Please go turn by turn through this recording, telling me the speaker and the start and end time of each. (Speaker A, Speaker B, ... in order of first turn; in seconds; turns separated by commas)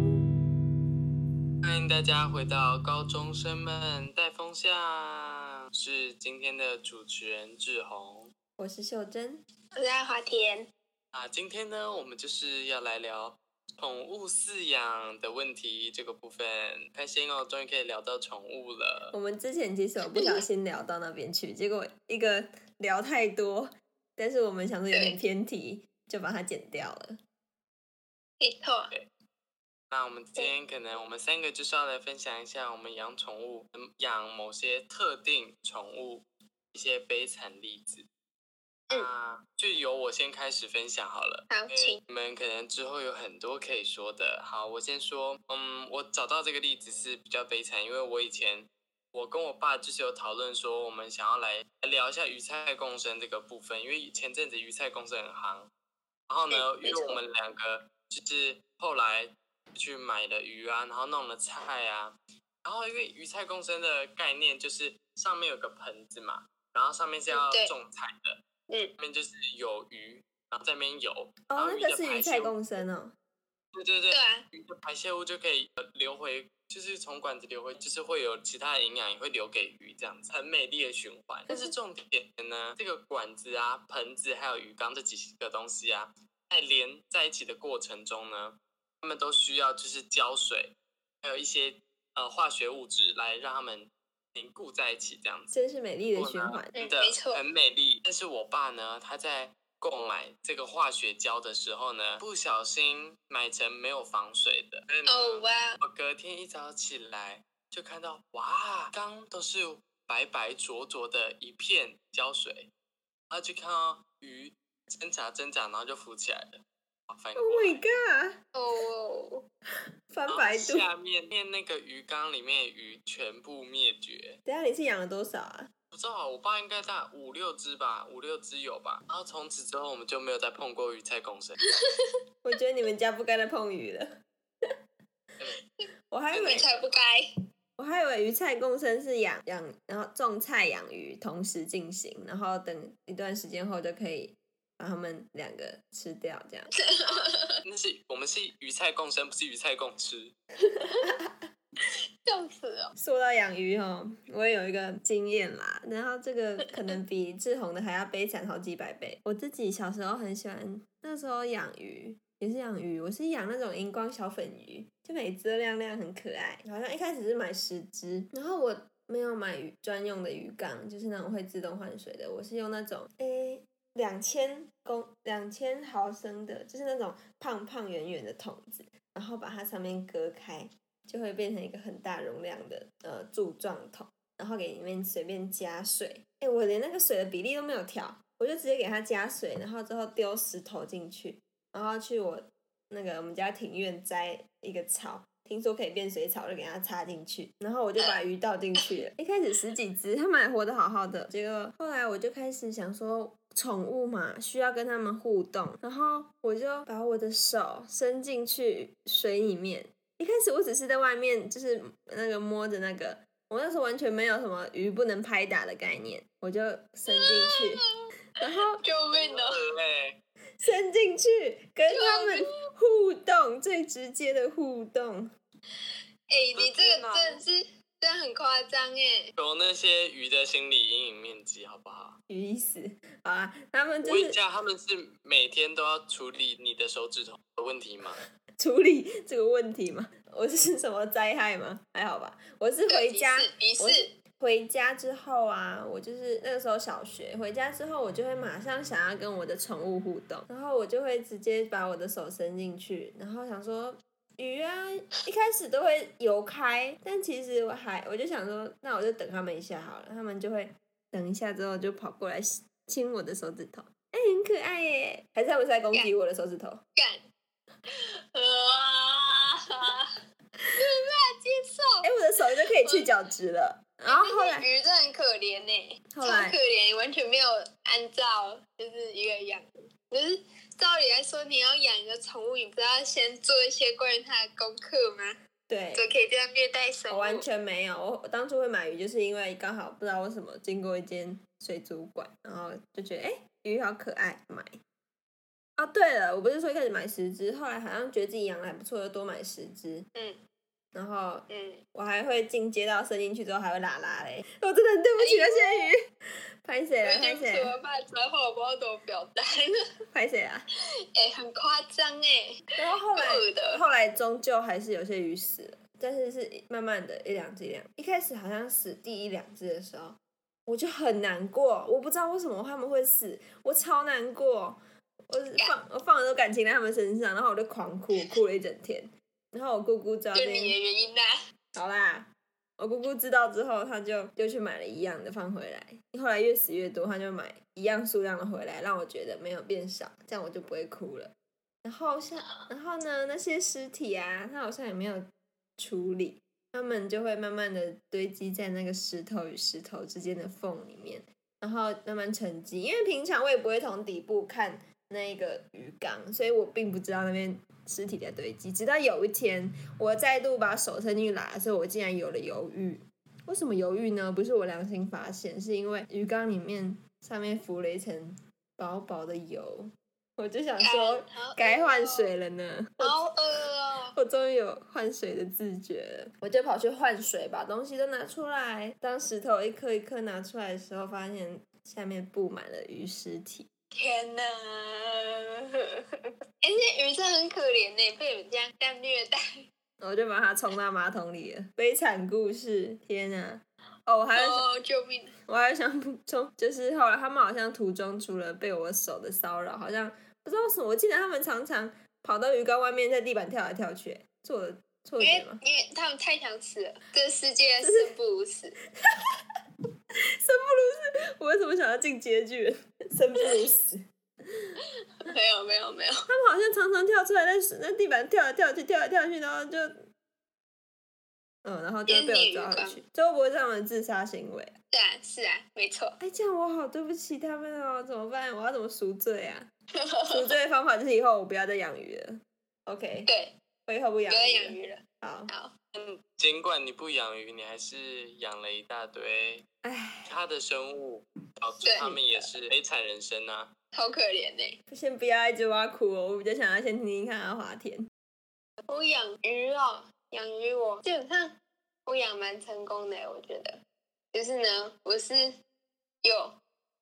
Speaker A: 1.6-8.3, Speaker B: 8.6-9.4, Speaker C: 9.8-10.7, Speaker A: 11.1-19.1, Speaker B: 19.1-27.2, Speaker C: 20.1-20.4, Speaker C: 24.9-25.2, Speaker C: 28.4-28.9, Speaker A: 29.9-38.1, Speaker A: 38.9-55.7, Speaker C: 41.5-42.0, Speaker A: 56.3-68.4, Speaker C: 56.5-57.2, Speaker C: 67.3-67.7, Speaker A: 69.0-72.8, Speaker B: 71.5-73.1, Speaker A: 73.7-95.5, Speaker C: 74.1-74.4, Speaker B: 95.5-96.7, Speaker A: 96.1-112.7, Speaker C: 96.7-97.4, Speaker C: 105.0-105.8, Speaker A: 113.3-117.8, Speaker B: 117.3-118.4, Speaker C: 118.5-119.4, Speaker B: 120.1-120.9, Speaker A: 120.3-124.4, Speaker B: 124.5-125.7, Speaker A: 125.9-131.6, Speaker B: 132.4-134.1, Speaker B: 136.1-136.7, Speaker A: 136.3-137.0, Speaker C: 136.4-137.3, Speaker B: 137.8-146.7, Speaker C: 146.8-147.6, Speaker A: 147.1-150.3, Speaker C: 150.6-151.1, Speaker B: 151.0-151.3, Speaker C: 152.2-152.9, Speaker B: 153.0-217.9, Speaker C: 217.1-217.9, Speaker B: 218.4-218.8, Speaker C: 218.8-219.6, Speaker A: 219.1-220.2, Speaker B: 220.6-225.3, Speaker C: 221.9-222.5, Speaker C: 226.3-229.3, Speaker A: 226.5-227.4, Speaker A: 229.4-232.2, Speaker B: 232.3-234.4, Speaker A: 234.0-238.2, Speaker B: 238.6-266.8, Speaker C: 242.9-244.1, Speaker C: 266.9-267.2, Speaker C: 267.9-270.1, Speaker C: 270.8-272.1, Speaker B: 272.0-274.6, Speaker C: 272.8-273.1, Speaker C: 274.1-285.4, Speaker B: 276.1-276.6, Speaker B: 285.7-286.1, Speaker C: 285.9-287.4, Speaker B: 287.1-294.7, Speaker B: 295.8-300.1, Speaker B: 300.9-306.0, Speaker C: 301.5-301.8, Speaker C: 305.2-305.9, Speaker B: 306.6-307.8, Speaker C: 307.0-309.8, Speaker B: 310.1-310.6, Speaker C: 311.1-313.8, Speaker B: 312.8-324.8, Speaker B: 325.3-330.8, Speaker C: 330.3-331.4, Speaker B: 331.7-341.3, Speaker B: 341.8-373.1, Speaker C: 370.8-372.3, Speaker C: 373.0-374.1, Speaker B: 374.1-383.7, Speaker C: 383.9-389.5, Speaker B: 390.0-394.6, Speaker C: 394.4-395.3, Speaker B: 395.5-405.6, Speaker C: 405.2-408.8, Speaker B: 407.8-408.1, Speaker B: 410.4-414.0, Speaker C: 415.2-416.2, Speaker B: 416.3-419.9, Speaker B: 421.6-424.7, Speaker C: 422.1-423.0, Speaker C: 424.9-426.2, Speaker B: 426.2-429.7, Speaker C: 430.0-430.5, Speaker B: 430.3-433.3, Speaker C: 433.3-433.6, Speaker B: 433.9-435.5, Speaker C: 434.3-435.7, Speaker A: 435.9-439.6, Speaker B: 439.8-440.3, Speaker A: 440.2-443.7, Speaker C: 441.8-442.3, Speaker C: 443.9-444.8, Speaker B: 444.9-448.1, Speaker C: 448.9-453.8, Speaker C: 454.3-455.5, Speaker C: 456.2-456.6